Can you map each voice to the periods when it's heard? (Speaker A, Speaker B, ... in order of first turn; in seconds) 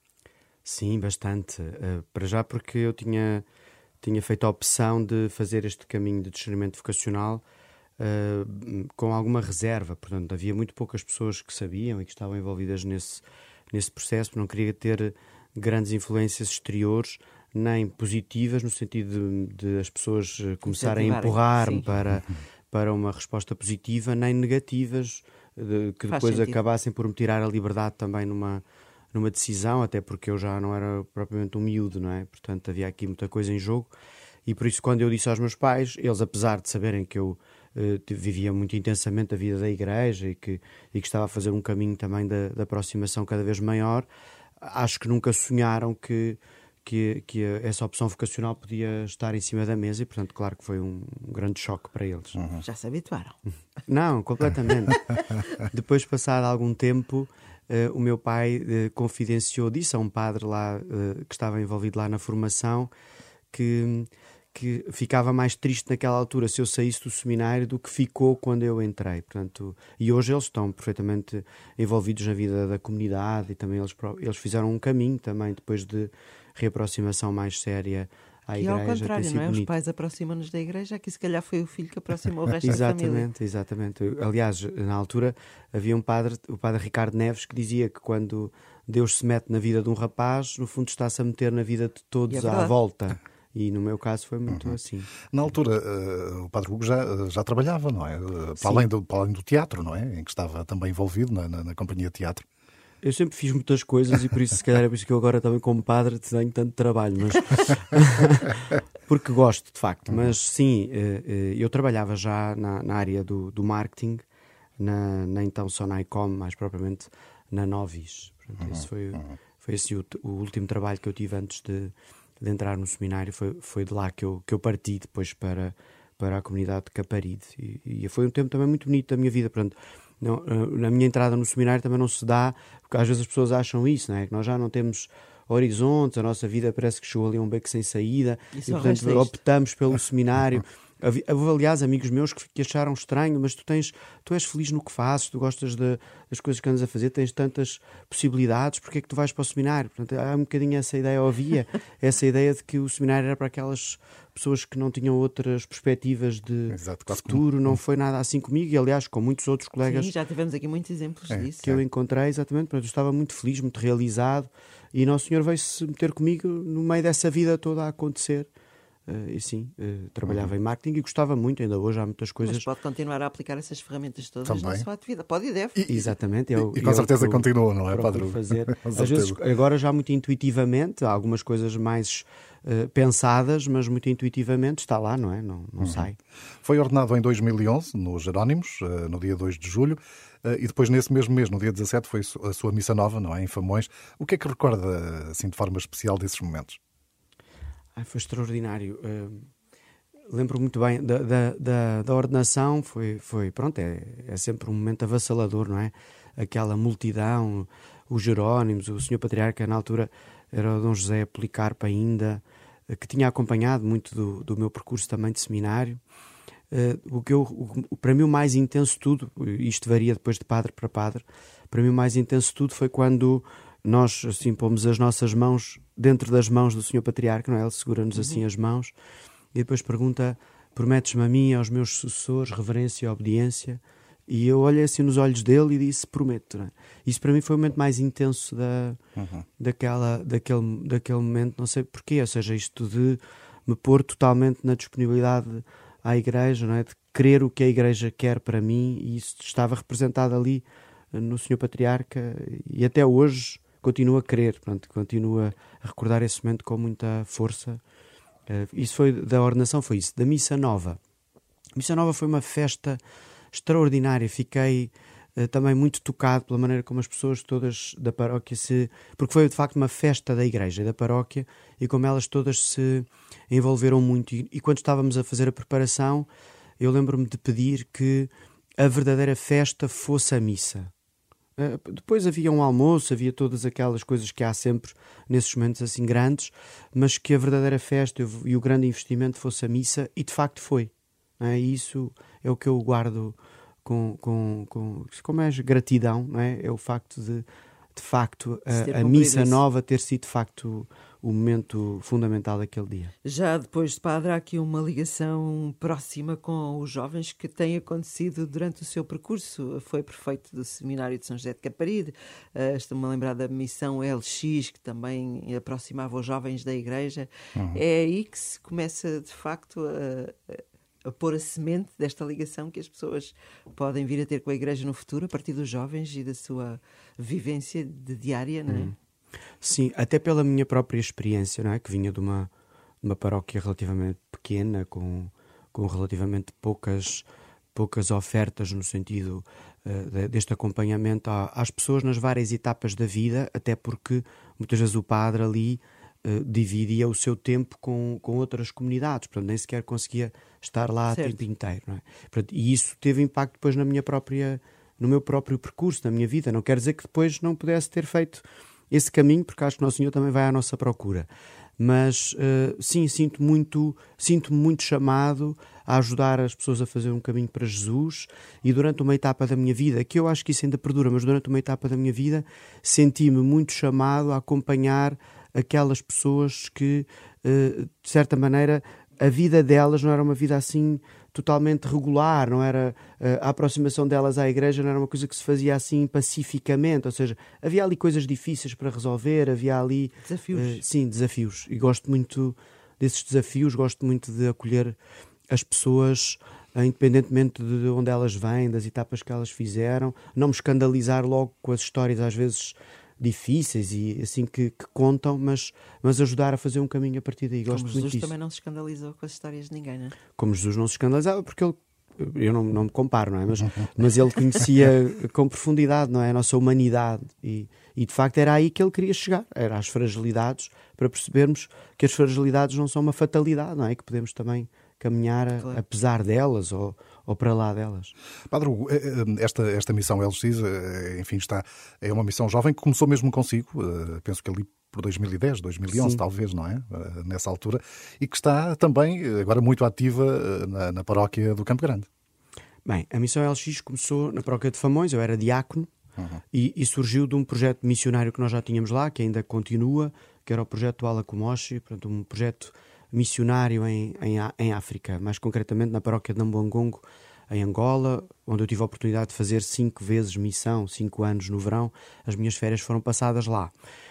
Speaker A: 0.7-3.4, 4.0-7.4, 8.0-28.6, 29.1-33.9, 34.5-44.1, 44.6-52.4, 53.9-55.1, 55.6-62.9, 63.5-79.7, 82.6-95.3, 103.0-114.2, 114.8-160.1, 161.6-168.5, 169.1-172.7, 175.8-186.2, 198.0-199.5, 200.3-216.0, 216.7-228.9, 229.5-239.0, 239.6-257.8, 258.5-261.0, 261.8-263.0, 263.5-276.3, 276.8-280.9, 281.6-303.1, 328.7-328.9, 329.6-332.5, 333.0-361.3, 361.8-395.0, 395.5-408.3, 410.4-428.1, 435.9-436.2, 442.9-445.9, 446.5-463.7
Speaker B: 20.7-21.9, 26.1-26.6, 52.6-53.4, 78.5-83.3, 92.3-92.7, 138.5-139.4, 159.8-161.6, 172.4-176.1, 228.2-228.4, 298.7-299.6, 303.2-328.9, 351.1-351.4, 390.2-390.8, 407.7-410.2
Speaker C: 52.4-52.6, 94.5-94.7, 95.3-102.4, 156.7-157.8, 161.3-161.8, 170.3-170.5, 174.5-174.9, 176.6-179.4, 185.8-186.1, 186.6-196.8, 239.2-239.4, 428.5-442.1